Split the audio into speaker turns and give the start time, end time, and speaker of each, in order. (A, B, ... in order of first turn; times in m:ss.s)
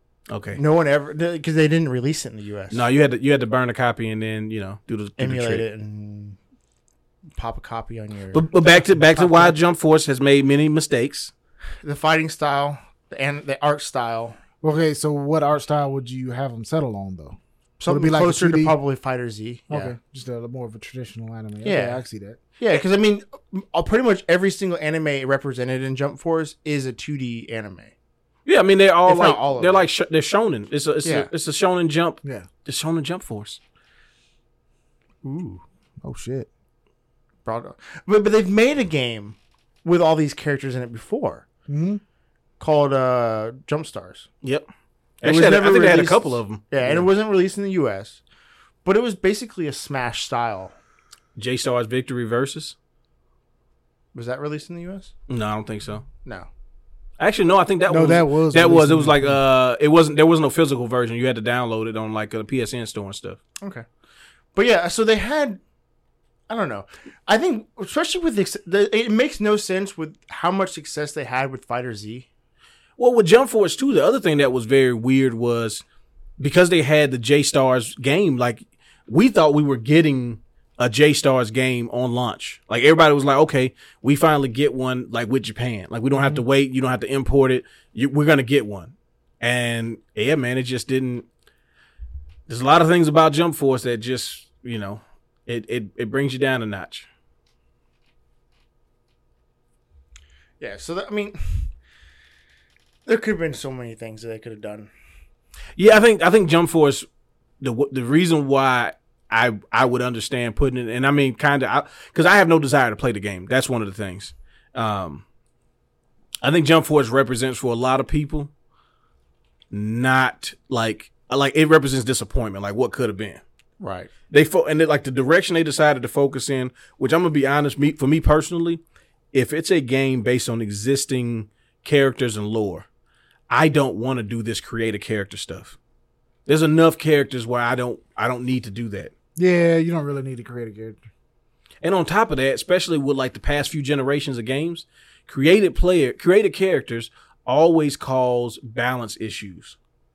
0:00.3-0:00.6 A
0:00.6-0:02.9 B
0:02.7-0:05.6 A
0:05.2-0:06.4 B
0:07.4-0:09.5 B
0:08.3-0:11.3 A
0:11.8-0:14.4 B
0:14.6-0:17.4 C
0:17.8-0:20.0 B
0:17.9-0:18.7 C
0:19.7-0:22.4 C
0:21.6-0:22.0 B
0:22.6-0:27.9 B
0:28.5-0:33.6 A
0:29.0-0:29.9 B
0:31.0-0:31.3 B
0:35.2-0:35.6 B
0:36.0-0:36.5 C
0:37.4-0:41.5 B
0:41.7-0:42.0 C
0:42.6-0:44.3 B
0:45.2-0:46.7 A
0:45.2-0:48.2 B
0:48.8-0:50.7 B
0:51.4-0:52.8 A
0:54.1-0:55.1 B
0:55.3-0:56.0 A
0:56.2-0:56.5 B
0:57.2-1:03.4 A
0:57.9-0:59.4 C
1:03.6-1:03.9 B
1:04.5-1:05.6 B
1:06.5-1:12.3 B
1:13.0-1:15.8 A
1:16.4-1:31.2 A
1:32.5-1:37.1 A
1:40.6-1:41.7 B
1:43.1-1:44.9 B
1:45.8-1:47.0 A
1:47.6-1:55.2 A
1:56.4-1:58.5 A
1:59.7-2:03.4 A
2:03.8-2:04.1 B
2:04.3-2:08.8 A
2:09.3-2:12.9 A
2:13.5-2:15.8 A
2:16.5-2:19.1 A
2:19.4-2:21.0 C
2:21.8-2:29.8 A